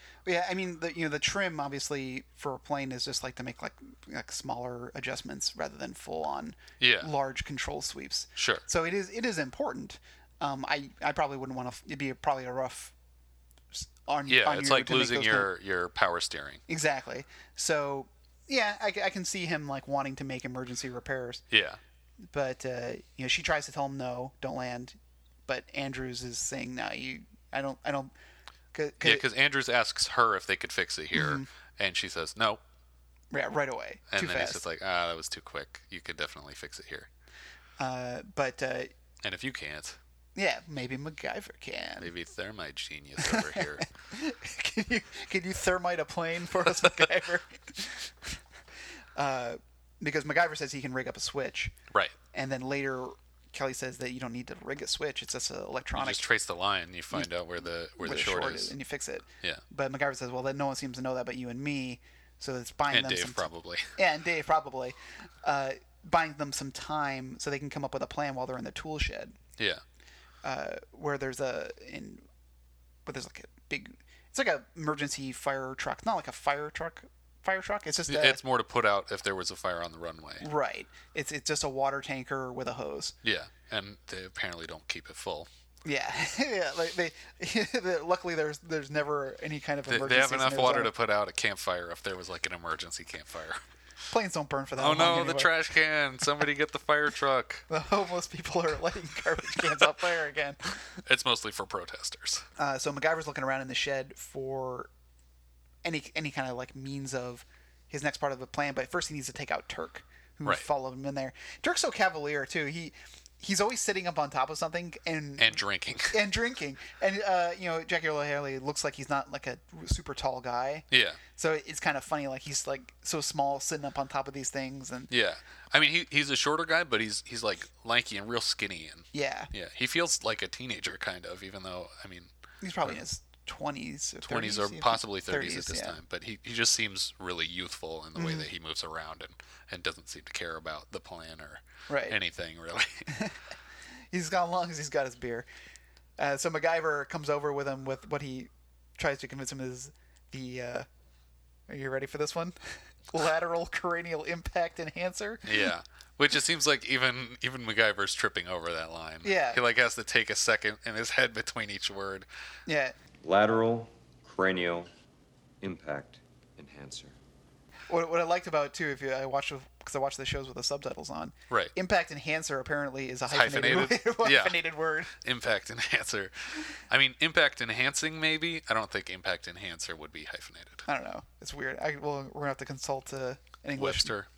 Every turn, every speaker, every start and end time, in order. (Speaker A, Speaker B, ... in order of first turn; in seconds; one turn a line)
Speaker A: 0.2-12.9
Speaker B: 6.8-7.1
Speaker B: 8.4-8.6
Speaker A: 13.7-15.5
Speaker B: 14.3-16.6
Speaker A: 16.7-21.4
Speaker B: 21.5-21.8
Speaker A: 22.3-28.1
Speaker A: 28.7-29.3
Speaker B: 29.0-32.6
Speaker A: 31.1-31.4
Speaker A: 33.3-34.6
Speaker B: 34.1-37.1
Speaker A: 37.8-38.9
Speaker B: 39.2-40.0
Speaker A: 40.4-42.1
Speaker B: 42.0-43.9
Speaker A: 43.2-48.4
Speaker A: 49.1-51.8
Speaker B: 51.9-52.1
Speaker A: 52.3-56.3
Speaker B: 55.9-58.7
Speaker A: 58.0-69.4
Speaker B: 62.9-63.9
Speaker A: 70.4-72.2
Speaker A: 73.0-78.4
Speaker B: 78.1-80.5
Speaker A: 80.4-83.2
Speaker B: 83.2-85.5
Speaker A: 85.8-90.9
Speaker B: 89.9-93.6
Speaker A: 94.1-95.5
Speaker B: 94.8-97.6
Speaker A: 97.7-100.7
Speaker B: 101.0-102.4
Speaker A: 102.6-104.9
Speaker A: 105.8-125.1
Speaker B: 115.4-116.2
Speaker B: 120.9-121.2
Speaker B: 125.1-132.3
Speaker A: 129.1-129.5
Speaker A: 132.6-136.0
Speaker B: 134.3-143.2
Speaker A: 138.1-138.5
Speaker A: 141.9-142.2
Speaker A: 143.1-143.4
Speaker A: 144.1-145.5
Speaker A: 146.2-150.9
Speaker A: 151.7-155.6
Speaker B: 155.4-162.3
Speaker A: 159.2-159.6
Speaker A: 162.7-162.9
Speaker C: 163.2-164.9
Speaker C: 165.6-167.2
Speaker A: 167.9-175.1
Speaker B: 173.3-174.6
Speaker B: 175.1-180.9
Speaker A: 180.9-184.1
Speaker B: 183.8-184.3